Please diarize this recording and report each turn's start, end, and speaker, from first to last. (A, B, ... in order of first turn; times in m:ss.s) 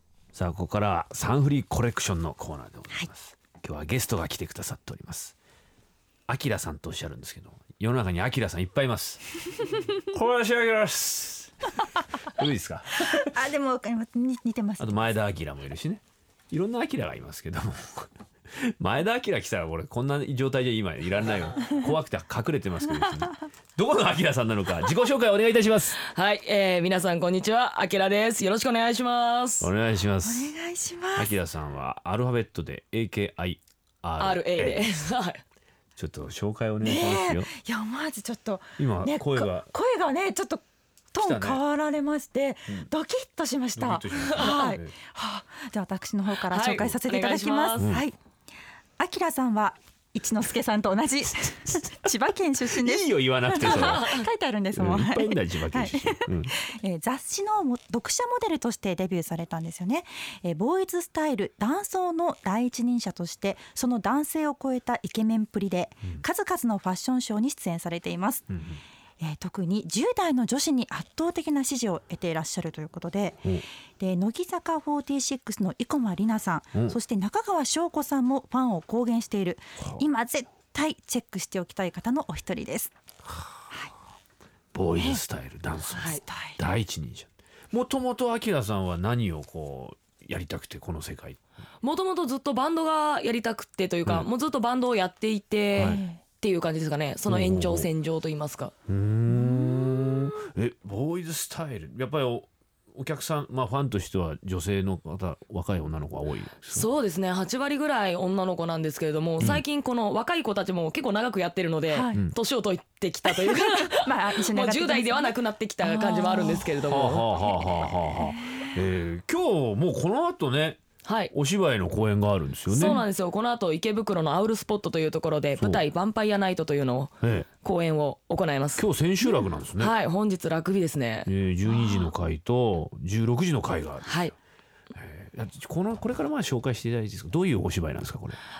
0:00.4-0:05.4 A
0:06.3-0:11.5 A
0:12.4-0:13.3 A
0:13.0-0:15.0 B
0:14.8-0:18.1 A
0:18.8-0:26.0 A
0:26.0-0:29.7 C
0:29.6-0:30.5 A
0:30.2-0:31.4 B
0:31.2-0:35.1 A
0:34.2-0:35.4 C
0:36.0-0:37.5 A
0:36.8-0:48.1 B
0:38.8-0:39.7 A
0:41.2-0:41.6 A
0:43.8-0:44.9 A
0:44.2-0:44.7 C
0:46.5-0:48.0 C
0:47.8-0:48.0 A
0:49.0-1:08.5 B
0:52.8-0:54.2 A
0:53.7-0:54.2 C
0:54.7-0:56.5 A
1:08.5-1:08.8 A
1:09.2-1:22.9 B
1:24.7-1:31.4 A
1:24.9-1:25.2 B
1:25.9-1:26.7 B
1:26.0-1:26.2 C
1:31.8-1:38.7 C
1:35.7-1:36.0 A
1:35.8-1:36.2 B
1:37.3-1:37.9 A
1:38.9-1:46.9 A
1:39.4-1:39.7 B
1:46.7-1:57.4 C
1:51.9-1:52.2 B
1:53.2-1:56.8 B
1:56.9-2:00.8 A
1:57.4-1:58.8 B
2:01.0-2:01.3 C
2:01.3-2:03.0 A
2:02.7-2:12.0 C
2:05.6-2:05.8 A
2:07.2-2:07.5 A
2:08.8-2:09.9 A
2:11.2-2:14.3 A
2:14.0-2:14.3 C
2:14.9-2:18.4 A